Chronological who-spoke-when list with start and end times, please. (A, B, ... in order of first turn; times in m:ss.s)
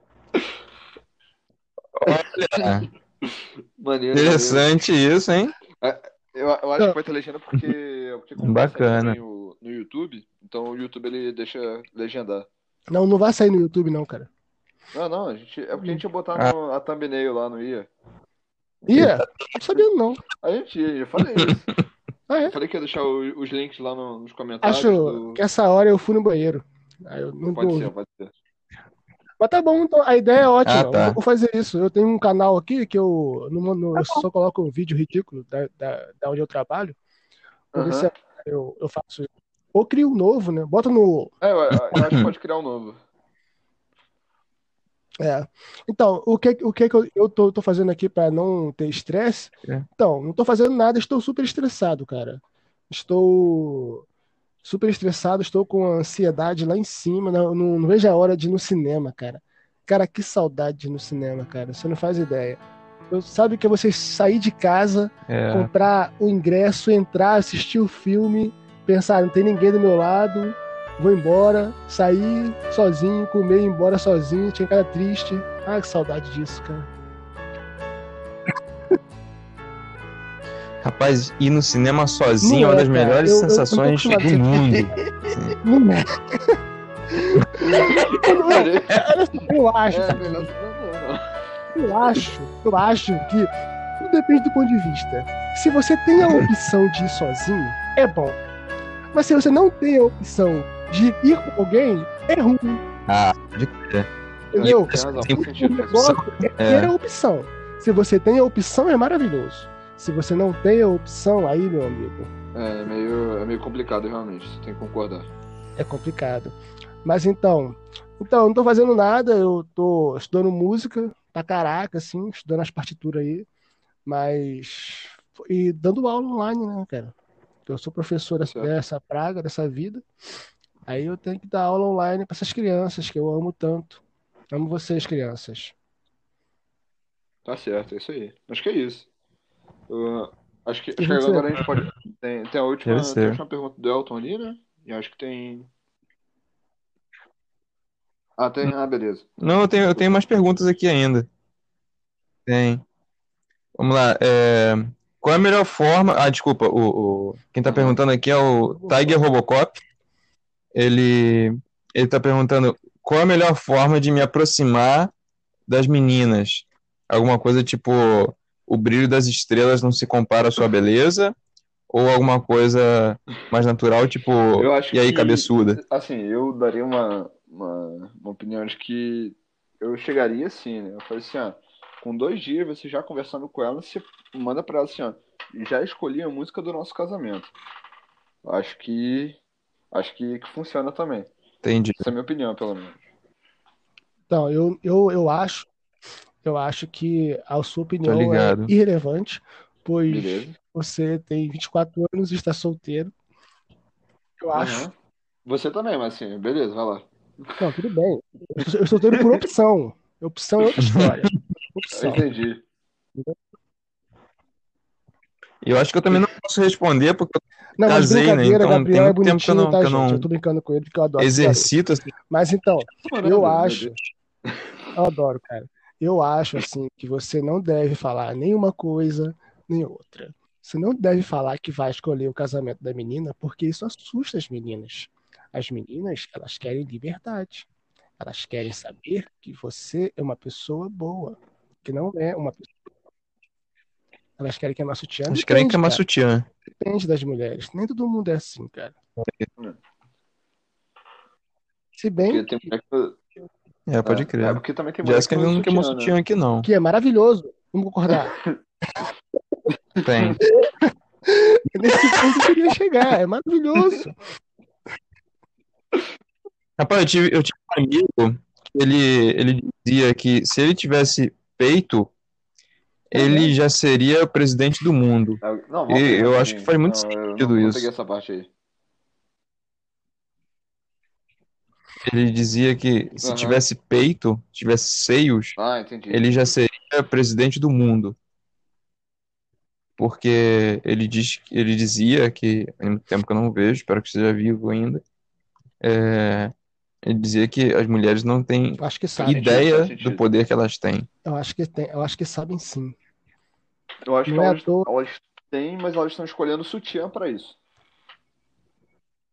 0:02.0-0:02.9 A
0:02.1-0:02.8 B
0:03.8-0:04.6 B
0:04.1-0:05.5 A
0:05.8-0:12.5 B
0:08.4-0:09.2 A
0:12.9-0:14.3 C
0:14.9-0:17.9 B
0:18.9-0:20.2 C
0:18.9-0:19.2 A
0:20.4-0:21.7 B
0:22.3-0:22.5 C
0:22.4-0:25.4 B
0:24.6-0:27.9 C
0:27.5-0:28.3 B
0:29.4-0:37.0 C
0:30.6-0:31.2 A
0:37.7-0:38.1 B
0:37.7-0:41.3 C
0:41.4-0:43.0 B
0:41.9-0:42.3 A
0:45.2-0:54.0 C
0:54.6-1:16.9 C
1:05.3-1:05.7 A
1:20.8-1:25.6 A
1:22.4-1:24.8 C
1:25.6-1:26.6 C
1:27.1-1:30.5 C
1:27.7-1:29.0 B
1:29.9-1:31.2 B
1:31.7-1:38.4 C
1:39.1-1:42.8 C
1:43.1-1:46.9 A
1:44.5-1:52.3 C
1:44.6-1:46.2 B
1:52.5-1:55.3 B
1:55.8-2:03.4 C
2:04.0-2:07.1 C
2:07.7-2:10.0 C
2:10.9-2:15.7 C
2:17.4-2:19.1 B
2:19.9-2:25.7 B
2:21.0-2:21.4 C
2:22.8-2:23.4 A
2:28.4-2:29.4 B
2:29.4-2:31.3 A
2:32.5-2:32.8 A
2:33.8-2:39.8 A
2:37.6-2:38.0 B
2:38.8-2:39.1 C
2:40.7-2:45.1 A
2:45.7-2:51.4 A
2:51.9-2:55.8 A
2:54.5-3:07.5 B
3:08.4-3:09.4 B
3:09.9-3:11.3 B
3:11.6-3:12.1 A
3:12.0-3:13.0 B
3:14.3-3:15.7 C
3:16.4-3:23.1 C
3:18.0-3:18.7 A
3:20.1-3:20.6 B
3:24.4-3:24.9 C
3:24.5-3:24.9 B
3:25.4-3:27.6 B
3:27.6-3:32.2 C
3:29.1-3:29.4 B
3:31.9-3:32.6 B
3:35.6-3:40.3 A
3:37.8-3:41.7 C
3:41.2-3:42.1 A
3:42.3-3:44.0 C
3:43.0-3:44.7 B
3:44.9-3:57.7 C
3:58.2-4:02.7 C
4:04.4-4:06.0 C
4:05.3-4:06.5 A
4:06.8-4:08.9 C
4:09.2-4:09.5 A
4:12.0-4:12.5 C
4:12.2-4:13.2 B
4:13.9-4:16.7 A
4:14.0-4:16.2 B
4:16.6-4:18.3 C
4:18.3-4:18.6 B
4:20.0-4:20.4 B
4:20.0-4:20.4 A
4:21.2-4:24.2 C
4:26.8-4:32.1 A
4:33.1-4:37.9 A
4:33.1-4:33.5 C
4:35.4-4:38.5 B
4:42.0-4:45.6 A
4:43.2-4:43.6 B
4:45.6-4:46.3 B
4:46.1-4:48.2 A
4:50.0-4:55.0 A
4:55.8-4:56.5 A
4:57.0-5:01.1 A
4:58.8-4:59.6 C
4:59.2-5:00.3 B
5:01.2-5:02.9 C
5:04.0-5:07.6 B
5:04.2-5:04.9 C